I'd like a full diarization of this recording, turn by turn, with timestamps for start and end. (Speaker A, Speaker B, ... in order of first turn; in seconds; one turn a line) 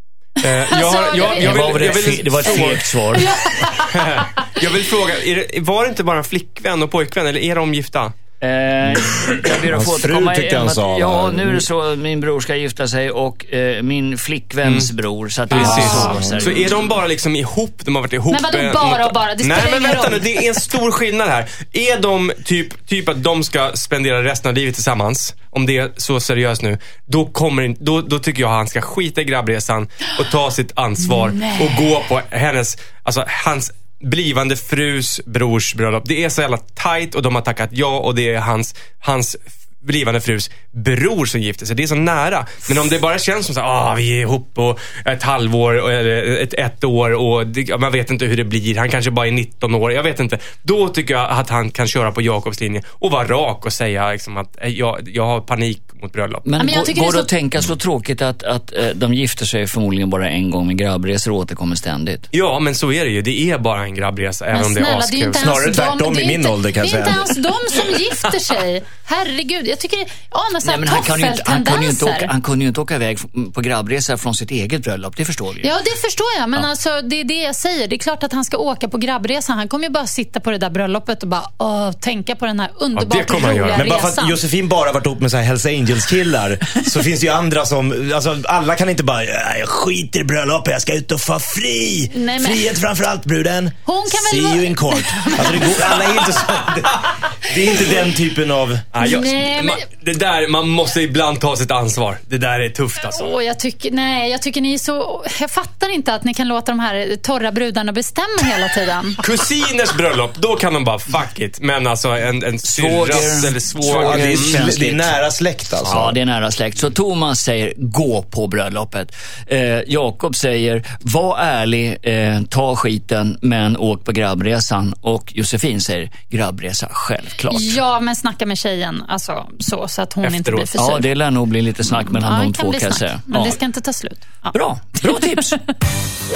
Speaker A: 0.4-1.9
Speaker B: 0.4-2.8
Speaker C: 1.4-3.4
Speaker A: 2.5-4.2
Speaker B: 3.9-8.1
Speaker C: 8.4-16.7
Speaker D: 8.8-11.7
Speaker B: 14.6-14.9
Speaker B: 15.5-56.5
Speaker D: 15.5-16.5
Speaker A: 18.3-20.6
Speaker A: 31.3-31.7
Speaker C: 56.5-62.3
Speaker A: 56.6-57.3
Speaker B: 62.3-65.5
Speaker A: 64.5-72.3
Speaker D: 65.3-67.3
Speaker C: 70.6-75.7
Speaker A: 75.6-84.4
Speaker B: 83.0-83.8
Speaker D: 83.7-98.9
Speaker A: 92.1-92.7
Speaker A: 93.9-96.2
Speaker B: 98.9-103.3
Speaker A: 99.0-99.8
Speaker A: 103.0-109.2
Speaker B: 109.2-115.0
Speaker C: 112.7-115.1
Speaker D: 113.9-116.2
Speaker C: 115.8-127.8
Speaker A: 127.5-131.1
Speaker B: 130.2-130.7
Speaker C: 130.8-133.6
Speaker A: 131.9-135.4
Speaker C: 134.5-135.6